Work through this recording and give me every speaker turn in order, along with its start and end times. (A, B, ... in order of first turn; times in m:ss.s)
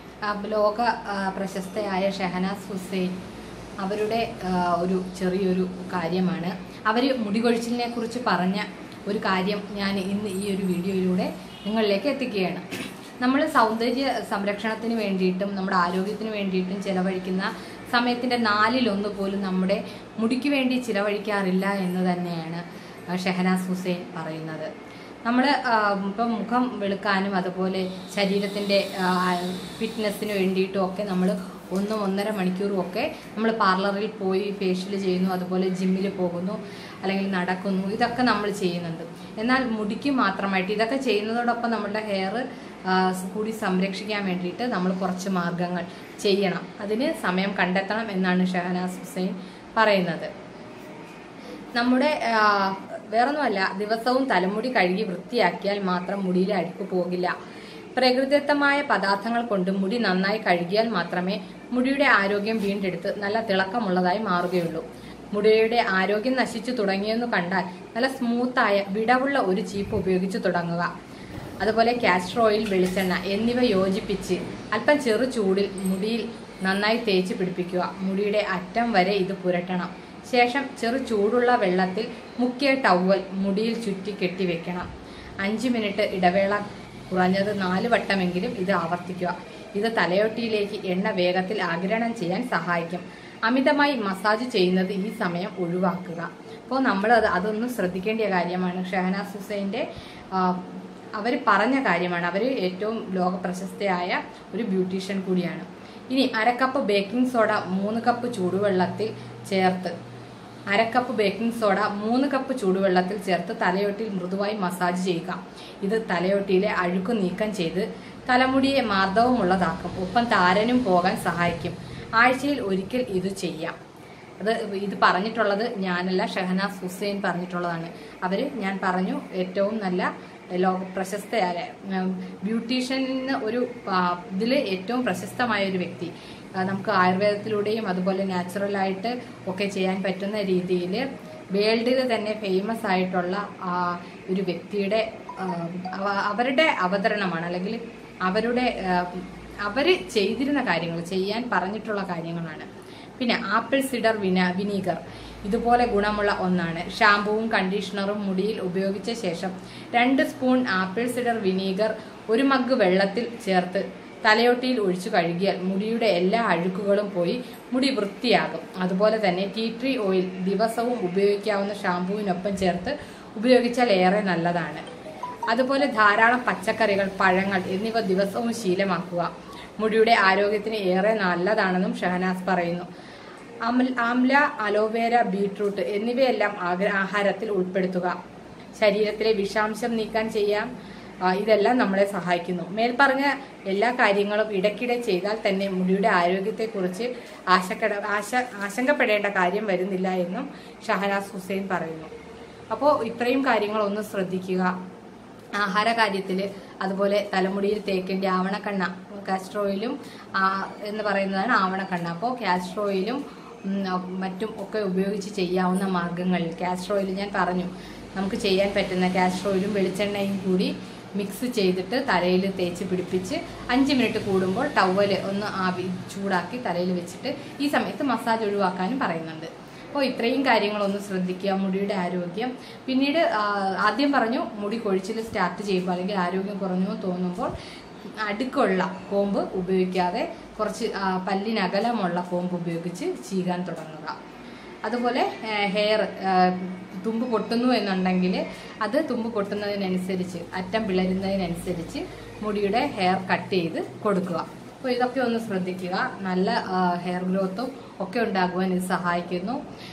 0:00.2-0:03.2 A
0:03.8-0:12.6 A
0:13.2-0:24.7 A
0:25.2-0:50.3 A
0:51.8-0:57.3 A
0:57.9-1:10.9 A
1:11.6-1:24.9 A
1:25.4-1:49.9 A
1:50.7-2:03.8 A
2:04.4-2:54.8 A
2:55.5-3:02.9 A
3:03.7-3:08.2 A
3:08.8-3:10.7 A
3:11.2-3:22.1 A
3:22.7-3:24.7 A
3:25.6-3:57.5 A
3:58.2-4:04.2 A
4:04.8-4:19.6 A